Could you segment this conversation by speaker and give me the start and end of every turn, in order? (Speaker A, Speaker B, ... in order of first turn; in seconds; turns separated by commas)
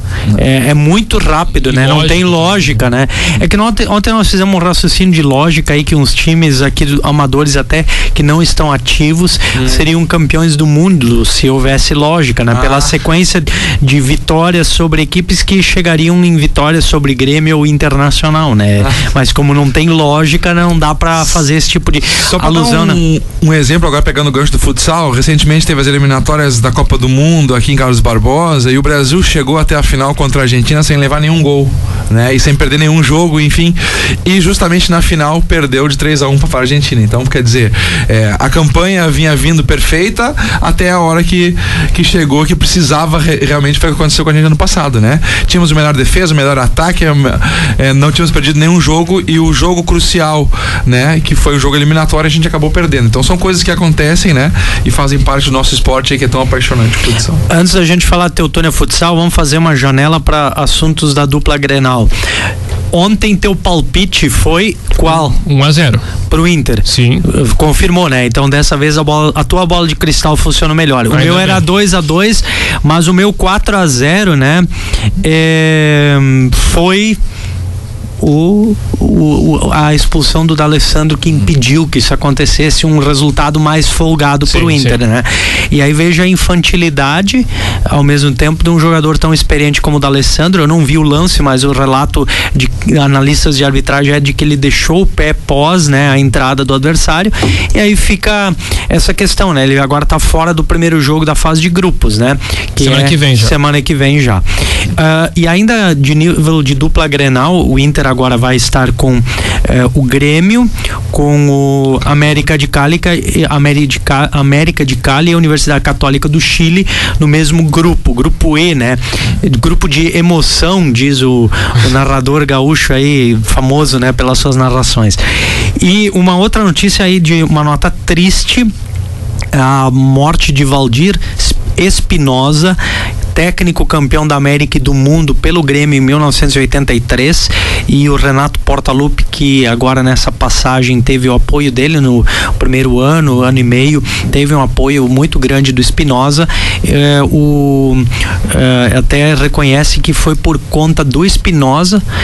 Speaker A: 0.3-23.0, Speaker B: 1.6-2.7, Speaker C: 9.5-9.8, Speaker C: 12.5-12.9, Speaker C: 22.1-57.4, Speaker A: 57.5-62.1, Speaker A: 62.9-65.4, Speaker B: 65.3-66.0, Speaker A: 66.3-74.7, Speaker B: 66.9-67.2, Speaker B: 71.1-71.6, Speaker A: 75.2-77.2, Speaker A: 78.2-128.7, Speaker B: 84.5-85.0, Speaker B: 102.8-103.5, Speaker A: 129.5-132.8, Speaker A: 133.3-152.0